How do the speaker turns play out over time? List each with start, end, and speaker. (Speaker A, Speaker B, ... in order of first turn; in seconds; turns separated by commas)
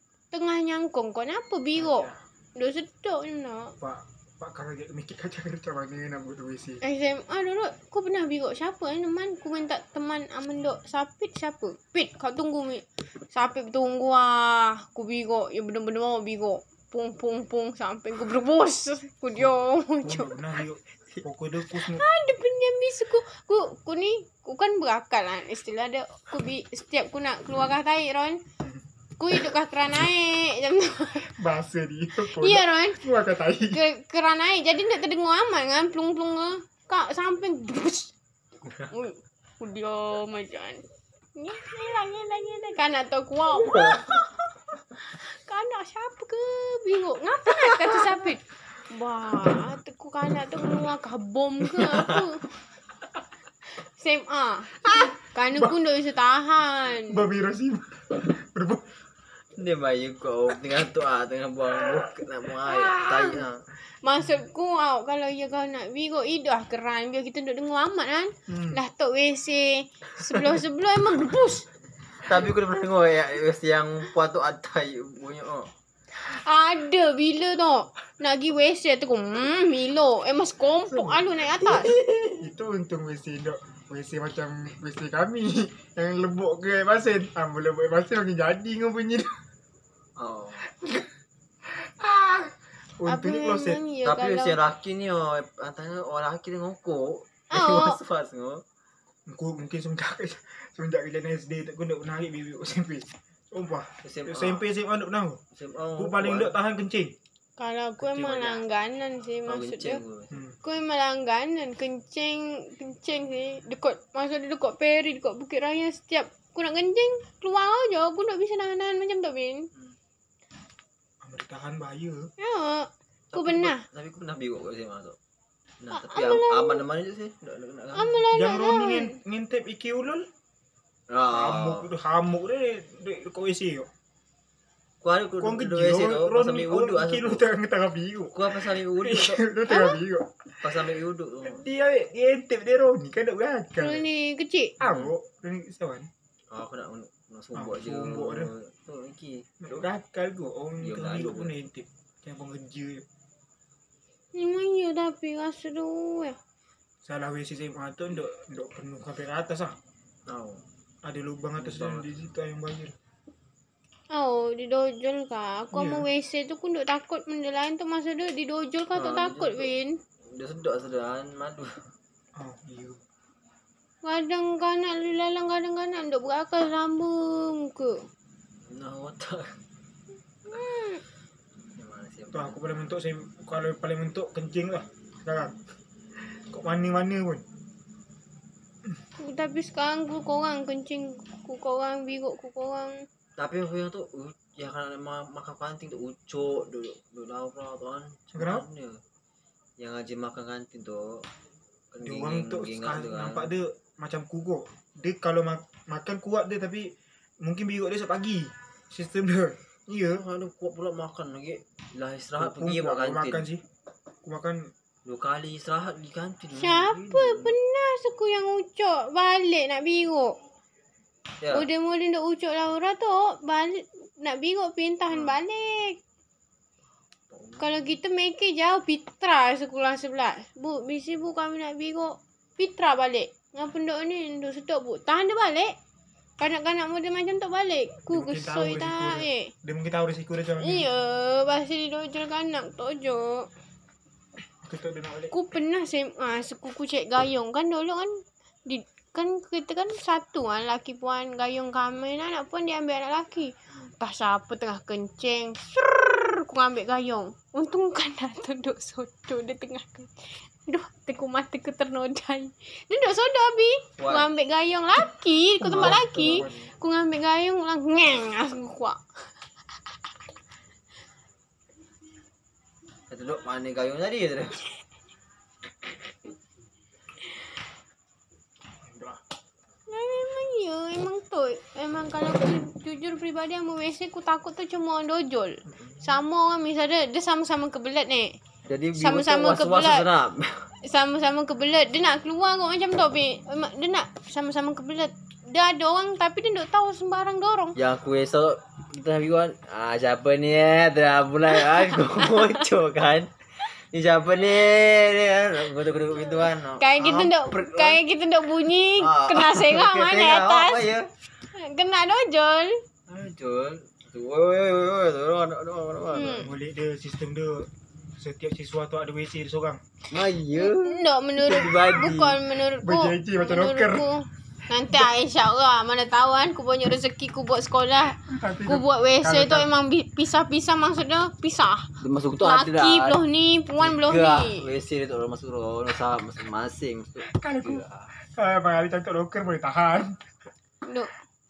Speaker A: 0.3-3.8, Speaker B: 1.8-2.2, Speaker B: 3.8-6.8, Speaker A: 6.8-20.3, Speaker B: 20.0-22.1, Speaker A: 21.8-28.4, Speaker A: 29.2-31.3, Speaker B: 31.3-33.8, Speaker A: 32.3-33.0, Speaker A: 33.7-38.1, Speaker A: 38.9-40.8, Speaker A: 41.4-44.2, Speaker C: 43.6-44.2, Speaker A: 45.0-52.5, Speaker C: 51.6-52.2, Speaker A: 54.0-57.3, Speaker B: 57.1-58.9, Speaker C: 59.6-63.6, Speaker A: 62.9-63.2, Speaker A: 64.0-71.7, Speaker B: 68.5-68.8, Speaker C: 72.2-75.7, Speaker A: 76.1-82.0, Speaker B: 80.9-81.3, Speaker C: 81.6-82.4, Speaker B: 82.4-89.3, Speaker C: 90.2-90.7, Speaker B: 90.7-91.1, Speaker B: 91.7-93.8, Speaker A: 93.1-94.6, Speaker C: 94.0-98.6, Speaker A: 97.5-98.0, Speaker B: 99.3-105.4, Speaker C: 104.0-104.7, Speaker C: 105.5-106.5, Speaker B: 106.0-107.1, Speaker A: 107.6-110.0, Speaker B: 108.0-108.6, Speaker C: 109.5-110.4, Speaker B: 110.3-110.6, Speaker A: 110.6-119.7, Speaker B: 121.2-122.3, Speaker A: 122.4-123.8, Speaker C: 123.3-125.2, Speaker C: 125.8-128.2, Speaker A: 125.9-126.8, Speaker A: 128.0-129.2, Speaker B: 128.3-130.3, Speaker C: 131.1-131.9, Speaker B: 131.3-133.9, Speaker C: 135.0-137.4, Speaker B: 135.4-140.3, Speaker C: 138.3-139.5, Speaker A: 139.7-140.0, Speaker C: 140.6-141.6, Speaker B: 141.4-144.1, Speaker A: 143.8-144.8, Speaker B: 144.8-146.1, Speaker C: 144.8-145.1, Speaker C: 146.5-149.5, Speaker B: 147.6-148.5, Speaker B: 149.6-153.1, Speaker C: 150.8-151.5, Speaker A: 154.3-156.4, Speaker B: 157.1-159.8, Speaker C: 160.3-160.6, Speaker B: 161.0-163.0, Speaker C: 161.6-162.1, Speaker A: 164.1-170.0, Speaker B: 165.7-166.1, Speaker C: 168.9-169.7, Speaker C: 170.3-171.8, Speaker B: 172.4-173.0, Speaker A: 174.0-178.1, Speaker C: 178.7-179.5, Speaker A: 180.5-181.0, Speaker C: 181.8-183.0, Speaker B: 182.3-185.6, Speaker B: 186.4-187.4, Speaker A: 189.2-193.1, Speaker C: 193.4-199.0, Speaker B: 198.3-198.7, Speaker C: 199.8-201.3, Speaker C: 201.9-203.5, Speaker B: 202.0-210.2, Speaker C: 210.1-213.5, Speaker B: 212.4-213.6, Speaker B: 214.2-214.7, Speaker C: 215.1-217.6, Speaker A: 216.6-220.4, Speaker C: 221.4-221.7, Speaker A: 221.5-226.0, Speaker C: 225.1-225.4, Speaker C: 227.3-228.0, Speaker A: 227.6-235.8, Speaker A: 236.4-239.5, Speaker B: 238.1-240.9, Speaker A: 240.6-243.5, Speaker B: 244.6-245.3, Speaker A: 245.3-269.0, Speaker C: 264.0-264.3, Speaker B: 265.6-266.7, Speaker C: 265.6-266.6, Speaker C: 273.1-274.7, Speaker B: 278.8-279.2, Speaker A: 279.9-288.4, Speaker C: 288.7-290.7, Speaker A: 289.0-290.1, Speaker A: 290.8-297.8, Speaker C: 297.8-308.0, Speaker A: 301.6-302.6, Speaker A: 306.3-310.9, Speaker C: 309.0-311.1, Speaker A: 311.5-312.8, Speaker C: 313.1-316.5, Speaker A: 316.1-316.5, Speaker B: 316.4-319.8, Speaker C: 320.1-322.4, Speaker A: 320.5-334.7, Speaker B: 322.8-324.1, Speaker B: 328.2-329.7, Speaker C: 332.0-333.2, Speaker C: 333.8-338.1, Speaker B: 337.3-340.2, Speaker A: 340.9-341.1